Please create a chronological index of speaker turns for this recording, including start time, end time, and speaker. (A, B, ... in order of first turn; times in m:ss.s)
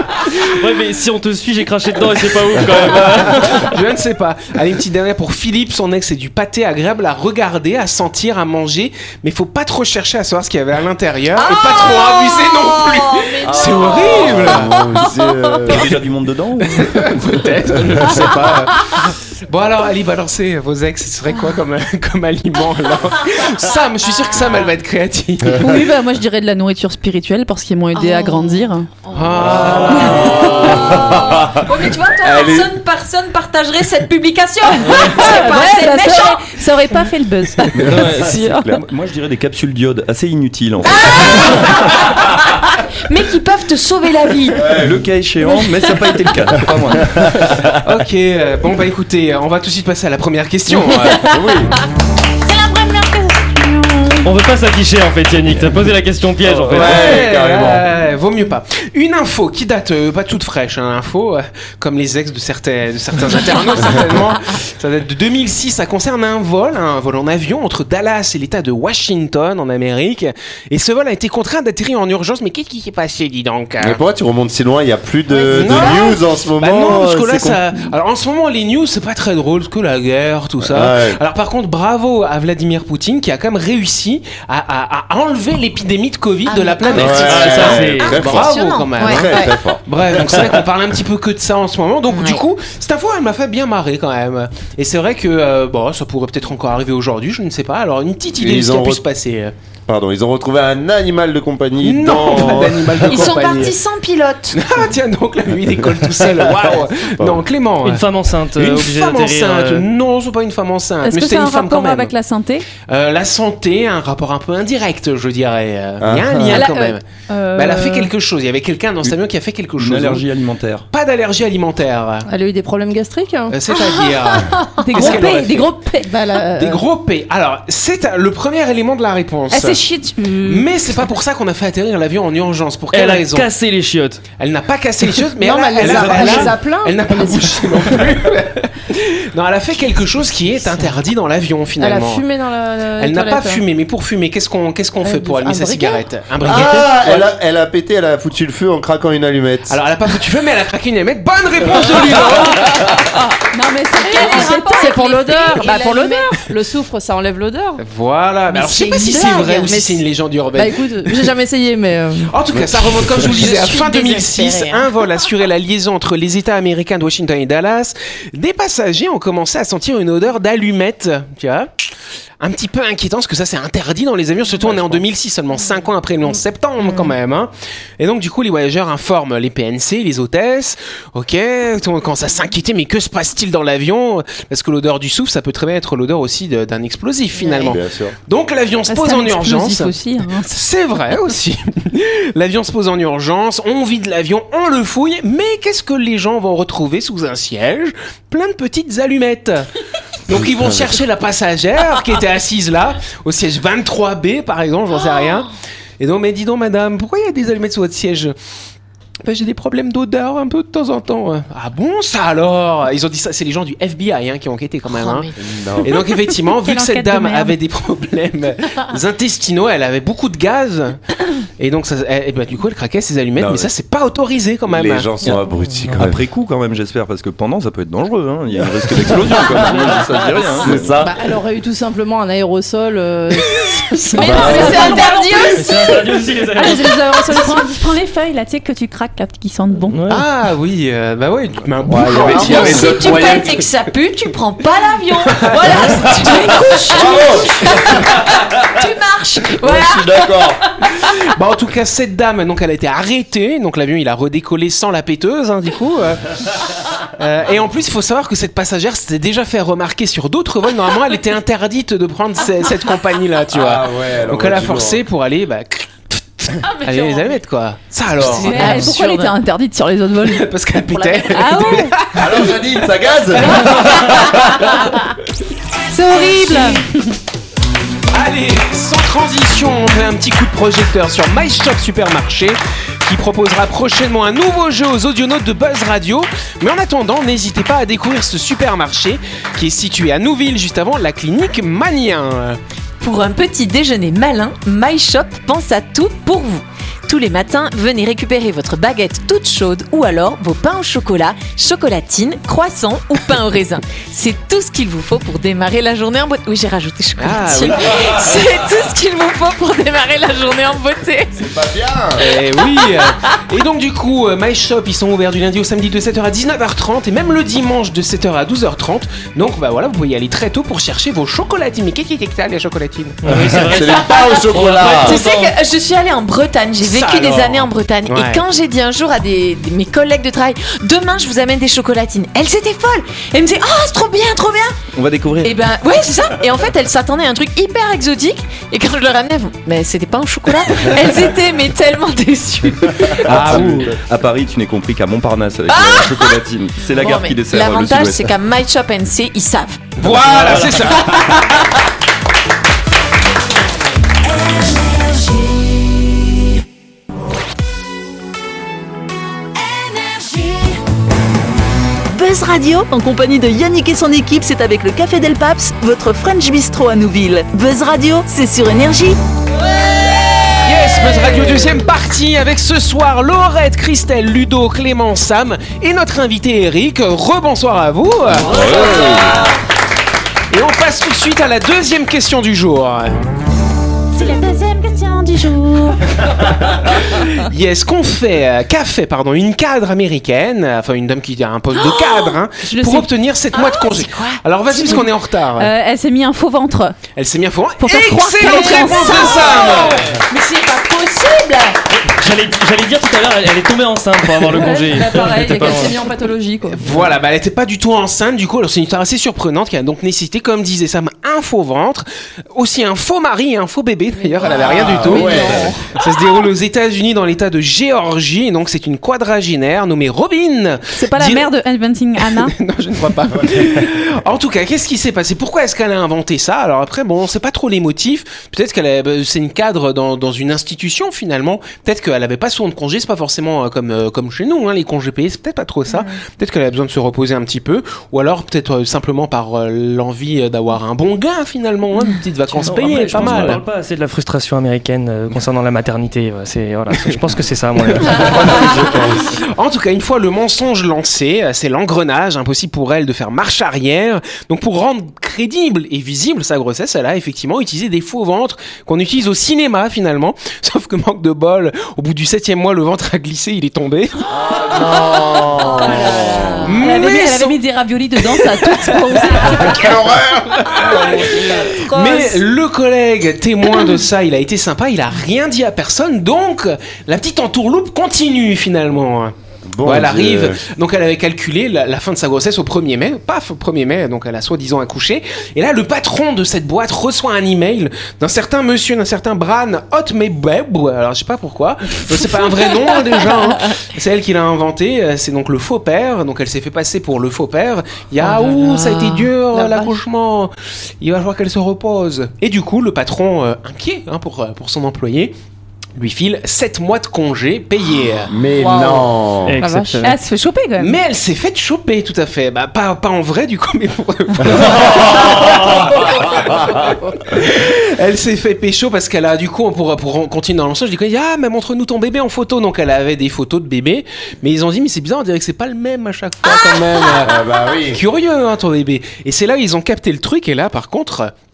0:00.5-0:03.7 A
0:03.2-0:14.8 B
0:11.6-0:14.1 C
0:13.4-0:16.0 D
0:15.6-0:17.1 E
0:16.6-0:25.8 B
0:25.6-0:28.9 F
0:27.9-0:28.7 C
0:29.1-0:30.3 B
0:29.4-0:32.7 D
0:29.9-0:36.6 C
0:30.1-0:30.7 F
0:34.7-0:38.0 F
0:37.9-0:41.6 E
0:37.9-0:38.8 A
0:41.0-0:41.9 C
0:43.0-0:44.7 C
0:44.5-0:45.1 D
0:44.7-0:47.7 E
0:47.8-0:51.3 B
0:50.9-0:51.7 D
0:52.4-0:54.2 C
0:54.2-0:57.2 A
0:56.6-0:57.9 D
0:56.7-1:14.0 B
1:13.8-1:17.6 D
1:15.3-1:16.1 C
1:15.5-1:39.5 B
1:20.6-1:21.2 D
1:26.4-1:29.6 C
1:26.9-1:30.6 D
1:27.4-1:28.2 A
1:32.1-1:32.4 C
1:38.4-1:39.0 D
1:39.9-1:43.4 D
1:41.8-1:43.8 B
1:43.1-1:44.6 C
1:44.5-1:52.1 B
1:45.8-1:47.4 D
1:47.8-1:49.9 A
1:51.0-1:52.7 F
1:52.8-1:57.0 B
1:56.0-1:56.6 D
1:56.5-1:58.1 F
1:57.5-2:00.2 B
1:59.8-2:00.8 E
2:00.9-2:02.3 B
2:02.3-2:04.0 G
2:03.5-2:05.7 B
2:04.0-2:06.1 F
2:04.9-2:05.3 C
2:06.0-2:06.8 G
2:06.5-2:09.8 B
2:09.5-2:10.6 F
2:10.4-2:13.5 B
2:12.9-2:14.2 A
2:14.4-2:22.2 B
2:15.4-2:17.8 G
2:15.8-2:16.6 E
2:21.8-2:23.6 G
2:23.0-2:27.3 B
2:25.0-2:26.0 G
2:26.4-2:29.8 D
2:29.7-2:32.8 B
2:32.5-2:36.0 F
2:34.0-2:37.8 G
2:34.0-2:36.2 C
2:37.8-2:41.3 B
2:38.5-2:39.7 C
2:39.6-2:40.0 G
2:40.5-2:42.3 G
2:42.3-2:51.7 B
2:42.6-2:43.2 D
2:43.2-2:45.0 C
2:52.4-3:09.9 B
3:07.3-3:07.8 C
3:07.6-3:08.1 D
3:08.9-3:10.6 F
3:10.5-3:19.7 B
3:20.2-3:28.3 B
3:29.2-3:41.0 B
3:34.9-3:35.3 C
3:35.4-3:36.0 D
3:36.4-3:37.5 F
3:41.6-3:45.1 B
3:44.7-3:46.2 D
3:45.2-3:46.1 A
3:45.9-3:51.0 E
3:48.8-3:51.1 D
3:51.0-3:55.9 G
3:54.1-3:55.8 C
3:54.1-3:56.0 F
3:54.2-3:54.8 D
3:55.4-3:56.9 A
3:56.5-4:00.0 F
3:56.6-3:57.8 G
3:59.9-4:00.2 A
4:00.1-4:03.6 B
4:01.8-4:03.6 D
4:02.2-4:10.5 C
4:05.3-4:06.3 B
4:06.0-4:08.4 D
4:09.6-4:10.6 D
4:11.0-4:16.5 B
4:17.2-4:28.8 B
4:23.5-4:25.0 D
4:26.6-4:27.4 C
4:28.2-4:29.3 C
4:28.4-4:30.5 F
4:30.2-4:32.6 B
4:30.9-4:31.3 C
4:31.3-4:31.9 F
4:32.1-4:34.8 D
4:33.6-4:34.4 F
4:35.9-4:36.9 F
4:38.1-4:52.6 B
4:53.0-5:11.4 C
5:07.2-5:08.3 B
5:11.3-5:12.2 D
5:12.2-5:23.5 B
5:12.3-5:13.1 C
5:23.2-5:25.5 A
5:23.3-5:25.2 D
5:25.0-5:34.8 C
5:26.8-5:28.4 B
5:34.9-5:35.6 E
5:35.4-5:43.6 C
5:43.2-5:48.3 E
5:43.2-5:43.9 B
5:43.4-5:43.8 D
5:45.7-5:49.9 C
5:50.0-5:51.7 B
5:50.1-5:50.9 A
6:02.1-6:09.2 H
6:10.6-6:19.4 B
6:18.4-6:19.4 D
6:18.6-6:19.2 C
6:20.5-6:23.2 B
6:24.1-6:26.1 F
6:26.9-6:35.7 B
6:32.6-6:33.1 F
6:33.5-6:34.4 C
6:34.8-6:37.0 F
6:37.2-6:40.2 B
6:37.8-6:40.0 F
6:38.4-6:39.2 G
6:38.5-6:41.8 C
6:42.2-6:46.0 A
6:44.5-6:47.0 G
6:46.8-7:01.5 B
6:54.5-6:55.7 D
6:54.6-6:55.9 G
6:55.1-6:55.4 F
7:00.9-7:02.5 F
7:02.2-7:23.6 B
7:22.6-7:28.6 A
7:22.8-7:23.1 F
7:26.9-7:27.3 B
7:27.8-7:44.3 B
7:28.2-7:29.3 D
7:44.3-7:46.8 D
7:45.6-7:47.0 C
7:46.6-7:47.6 B
7:46.8-7:49.8 F
7:48.2-8:25.3 B
7:49.4-7:51.9 D
7:50.7-7:52.4 C
7:59.7-8:00.6 D
8:18.2-8:19.2 C
8:19.5-8:20.0 G
8:26.0-8:28.3 B
8:28.3-8:29.6 D
8:28.6-8:29.0 G
8:29.4-8:30.1 A
8:29.6-8:30.1 G
8:30.0-8:31.0 F
8:30.8-8:51.3 B
8:34.5-8:36.9 D
8:47.2-8:48.0 D